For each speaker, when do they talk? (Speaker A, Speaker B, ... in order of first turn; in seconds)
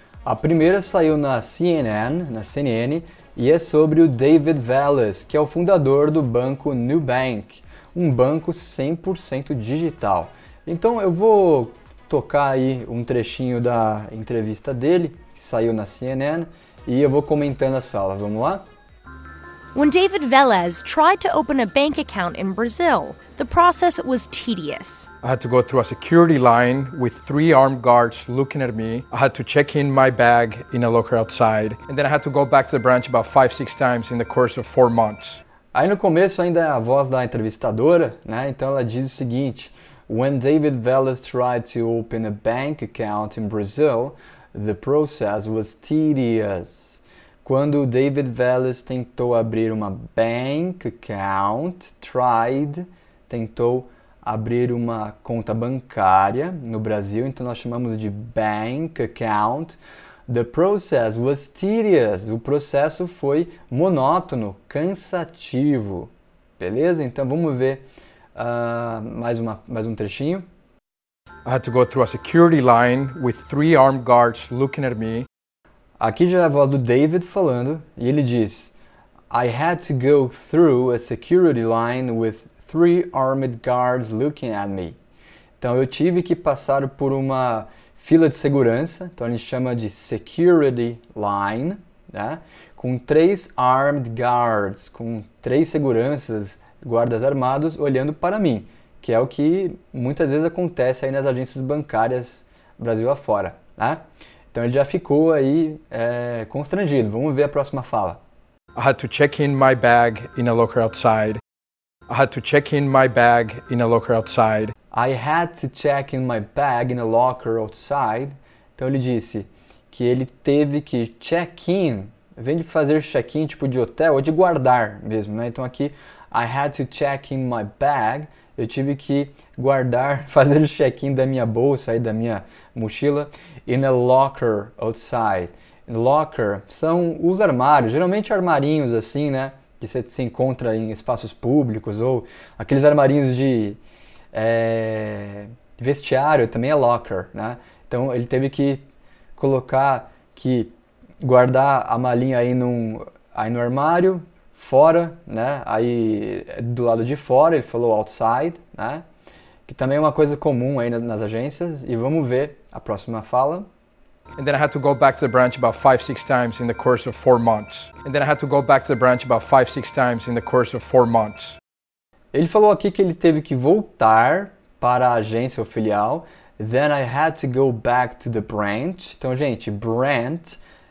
Speaker A: 0.2-18.6, 35.7-67.8, 68.3-70.5, 76.0-78.7, 79.3-85.0, 85.6-104.0, 104.5-108.2, 114.9-143.8, 144.3-148.8, 149.3-159.0, 159.7-163.7, 172.3-180.6
Speaker B: 19.7-25.1
Speaker C: 25.2-35.4, 71.4-75.3, 108.8-111.4, 112.1-114.7, 164.4-171.6